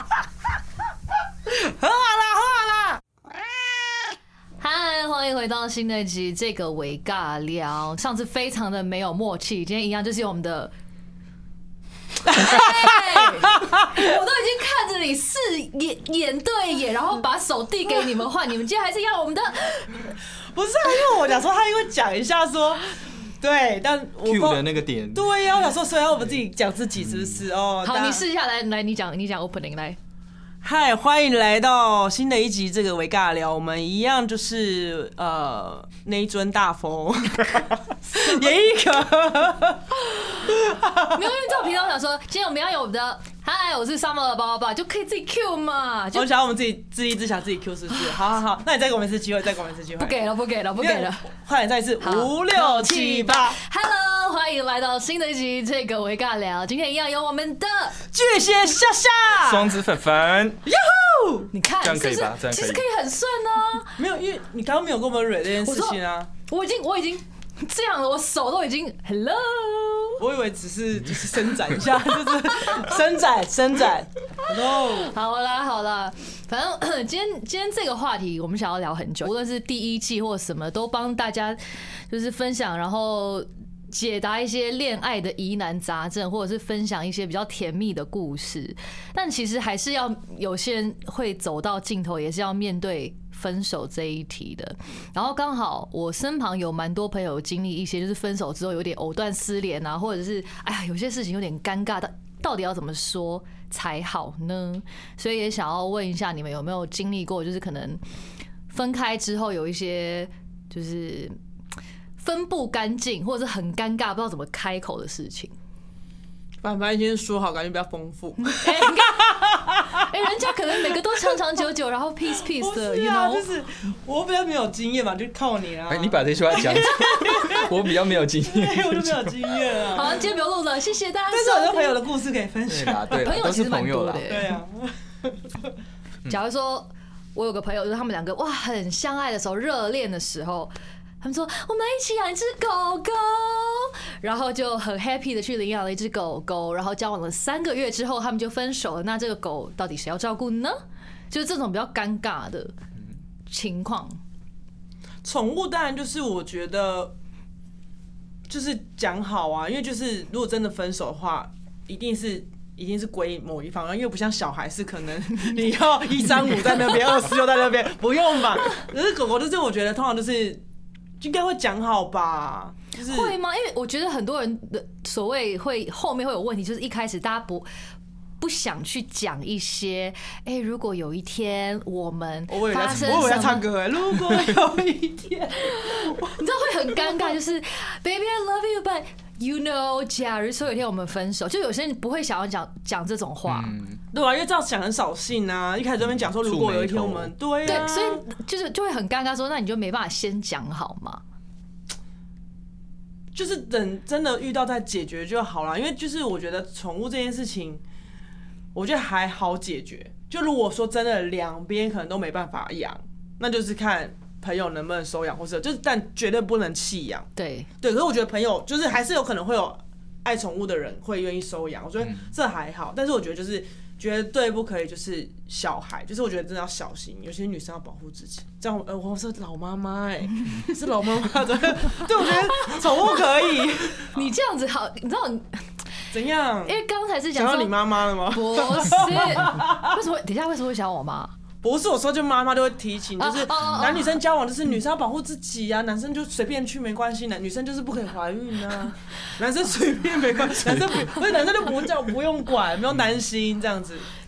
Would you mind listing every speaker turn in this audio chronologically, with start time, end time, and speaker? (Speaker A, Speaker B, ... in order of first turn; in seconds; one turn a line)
Speaker A: 1.5-3.0
Speaker B: 4.6-10.7
Speaker B: 12.2-20.1
Speaker A: 12.5-12.8
Speaker A: 20.4-28.2
Speaker C: 24.2-25.4
Speaker B: 27.8-30.0
Speaker A: 30.6-41.2
Speaker B: 41.1-46.3
Speaker A: 46.1-50.2
Speaker B: 50.0-51.3
Speaker A: 50.8-53.6
Speaker B: 52.0-58.0
Speaker A: 58.1-59.8
Speaker C: 59.4-60.6
Speaker A: 60.7-61.5
Speaker B: 61.5-63.9
Speaker C: 61.8-62.8
Speaker A: 64.0-66.3
Speaker B: 65.6-70.2
Speaker A: 70.2-75.1
Speaker B: 74.4-81.6
Speaker B: 82.1-108.0
Speaker B: 108.7-111.4
Speaker B: 112.2-115.5
Speaker A: 116.6-120.0
Speaker B: 118.5-119.4
Speaker B: 119.9-123.5
Speaker A: 122.5-130.3
Speaker C: 125.9-129.7
Speaker B: 129.9-132.0
Speaker A: 131.3-133.4
Speaker C: 132.7-134.3
Speaker B: 133.1-134.5
Speaker A: 134.3-135.7
Speaker B: 136.3-150.8
Speaker B: 151.3-152.7
Speaker B: 153.5-154.2
Speaker A: 155.2-157.1
Speaker A: 158.5-170.6
Speaker A: 171.2-173.4
Speaker B: 173.0-177.7
Speaker B: 178.4-183.6
Speaker A: 182.5-187.2
Speaker C: 182.9-183.5
Speaker B: 185.7-193.8
Speaker C: 193.5-194.0
Speaker A: 194.1-198.2
Speaker C: 196.0-197.8
Speaker B: 197.7-201.2
Speaker A: 203.3-207.8
Speaker A: 208.8-217.3
Speaker B: 217.4-217.7
Speaker A: 217.8-234.1
Speaker B: 232.2-233.2
Speaker B: 234.0-235.7
Speaker A: 236.1-236.8
Speaker B: 236.7-241.3
Speaker A: 237.3-240.0
Speaker A: 241.6-254.1
Speaker B: 243.2-244.2